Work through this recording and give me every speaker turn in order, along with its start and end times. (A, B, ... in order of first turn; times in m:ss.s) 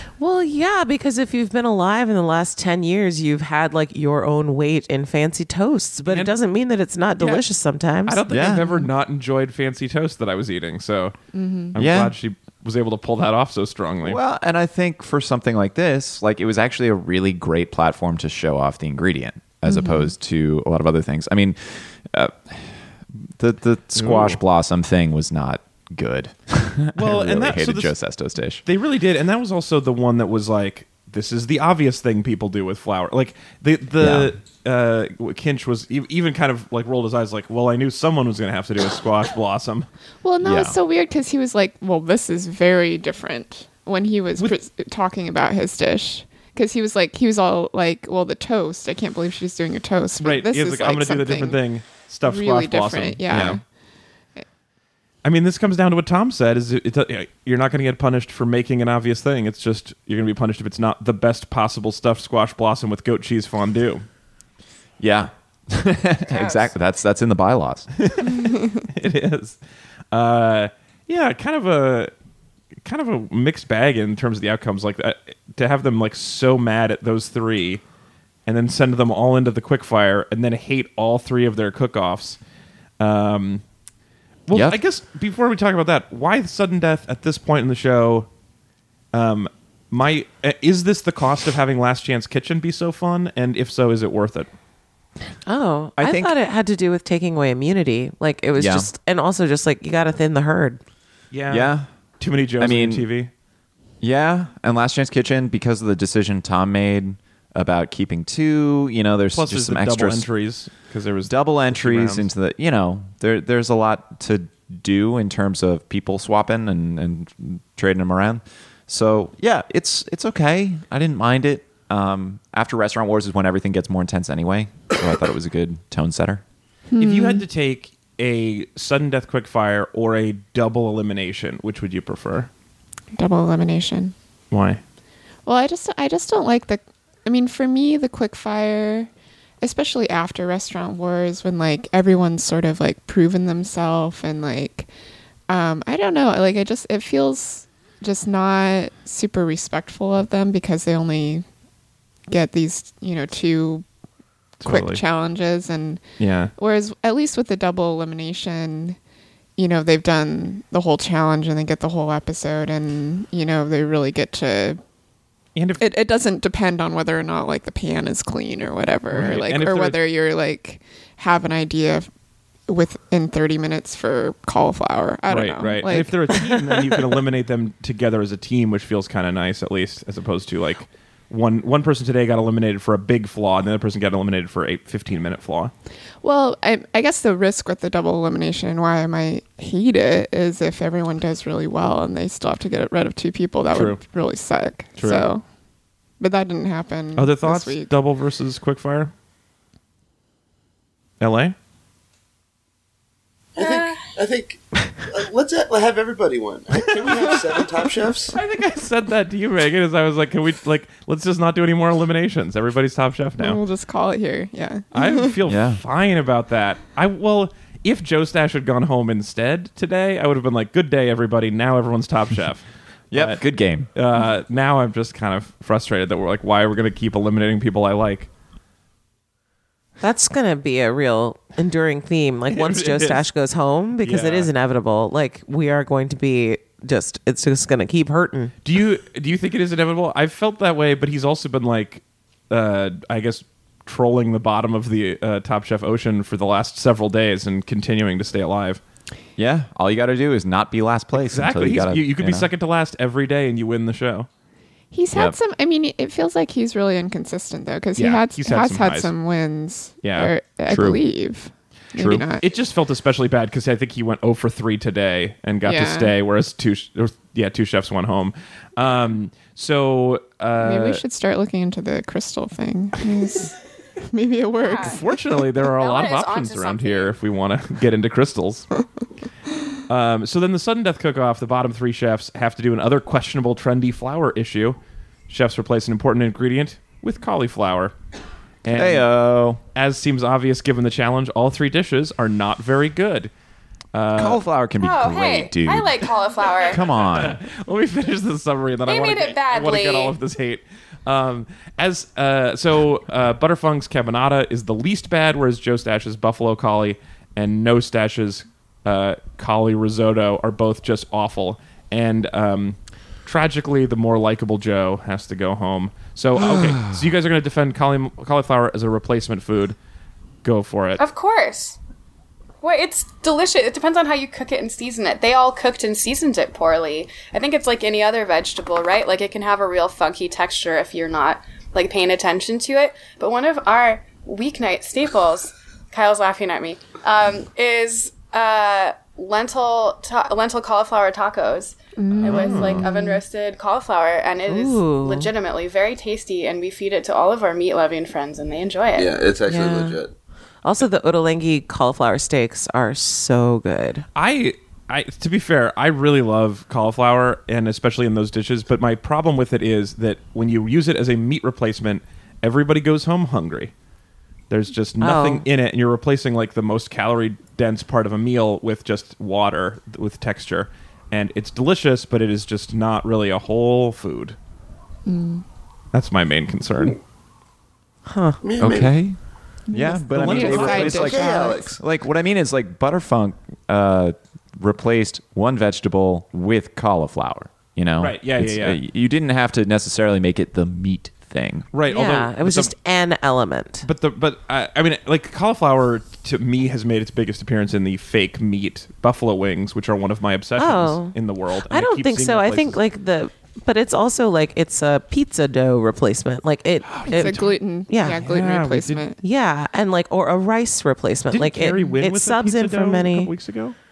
0:00.2-0:08.2 A
0:06.0-0:06.3 B
0:07.2-0:07.4 B
0:08.0-0:11.1 B
0:08.3-0:08.7 C
0:08.4-0:08.9 D
0:11.3-0:11.7 D
0:11.7-0:14.2 B
0:11.8-0:12.1 C
0:14.0-0:28.6 C
0:19.6-0:20.1 D
0:24.0-0:24.4 B
0:26.9-0:28.0 B
0:28.6-0:39.9 B
0:34.0-0:34.3 C
0:40.2-0:51.6 D
0:40.4-0:40.8 C
0:50.2-0:53.6 B
0:52.2-0:53.6 D
0:55.2-1:04.0 B
1:05.0-1:07.9 C
1:06.3-1:06.7 E
1:08.0-1:09.6 B
1:10.1-1:12.1 B
1:12.8-1:17.8 B
1:18.4-1:22.4 B
1:23.0-1:23.6 B
1:24.5-1:28.3 B
1:24.5-1:24.8 C
1:29.1-1:34.5 B
1:35.5-1:40.8 A
1:36.0-1:36.3 C
1:38.6-1:38.9 C
1:41.3-1:43.3 B
1:41.5-1:41.9 C
1:42.6-1:43.1 C
1:44.0-1:50.3 C
1:49.3-1:52.3 B
1:51.3-2:06.4 C
2:06.9-2:07.4 D
2:07.0-2:12.5 B
2:13.1-2:14.1 D
2:14.5-2:14.8 B
2:15.4-2:19.1 D
2:19.6-2:24.9 D
2:25.5-2:31.4 D
2:32.3-2:33.8 D
2:34.6-2:35.0 B
2:34.6-2:36.0 D
2:36.2-2:36.5 B
2:36.6-2:39.0 D
2:39.6-2:44.8 D
2:45.6-2:45.8 B
2:45.8-2:52.1 D
2:49.1-2:50.0 B
2:52.7-2:56.8 D
2:55.3-3:05.7 B
3:06.2-3:15.4 D
3:13.7-3:14.0 B
3:15.0-3:15.2 B
3:16.2-3:17.9 D
3:17.2-3:19.1 B
3:21.2-3:21.5 B
3:23.5-3:28.4 F
3:23.6-3:24.1 E
3:26.9-3:27.2 B
3:28.3-3:33.6 B
3:33.4-3:35.4 D
3:34.9-3:43.4 B
3:35.4-3:35.8 C
3:43.1-3:43.9 C
3:43.9-3:48.3 B
3:50.0-3:58.5 A
3:52.5-3:53.2 B
3:54.0-3:54.5 B
3:58.6-4:08.8 B
4:09.4-4:12.5 C
4:11.1-4:14.3 B
4:14.9-4:22.4 D
4:18.0-4:19.1 B
4:20.0-4:20.3 B
4:20.7-4:21.0 C
4:22.0-4:22.2 C
4:22.0-4:31.0 B
4:25.6-4:26.1 D
4:30.6-4:35.1 D
4:34.6-4:35.0 E
4:34.8-4:38.7 B
4:35.6-4:37.1 E
4:39.9-4:44.8 B
4:45.3-4:47.9 B
4:48.6-4:49.1 B
4:48.7-4:49.6 C
4:49.7-4:53.3 B
4:53.9-4:54.4 B
4:54.1-4:57.4 C
4:54.8-4:56.8 E
4:56.9-5:19.8 B
4:58.8-5:00.2 E
5:16.4-5:17.1 C
5:20.4-5:21.0 B
5:21.0-5:21.8 E
5:22.6-5:49.1 E
5:42.0-5:43.2 D
5:42.1-5:42.8 B
5:44.5-5:45.3 A
5:48.9-5:50.1 F
5:49.5-5:50.0 A
5:50.6-5:54.0 A
5:54.1-6:03.7 B
6:04.5-6:14.4 B
6:05.0-6:05.4 A
6:15.0-6:15.4 D
6:15.9-6:17.0 B
6:18.1-6:18.4 A
6:18.4-6:18.9 F
6:18.6-6:19.2 C
6:19.7-6:21.8 D
6:19.7-6:31.7 C
6:20.1-6:20.9 B
6:20.3-6:21.8 F
6:28.0-6:28.8 B
6:31.7-6:32.7 B
6:31.9-6:33.9 A
6:33.8-6:42.8 B
6:40.6-6:41.2 A
6:41.7-6:48.2 A
6:46.8-6:47.6 B
6:47.0-6:49.2 D
6:48.2-6:49.1 B
6:49.2-6:53.3 A
6:51.3-6:53.8 B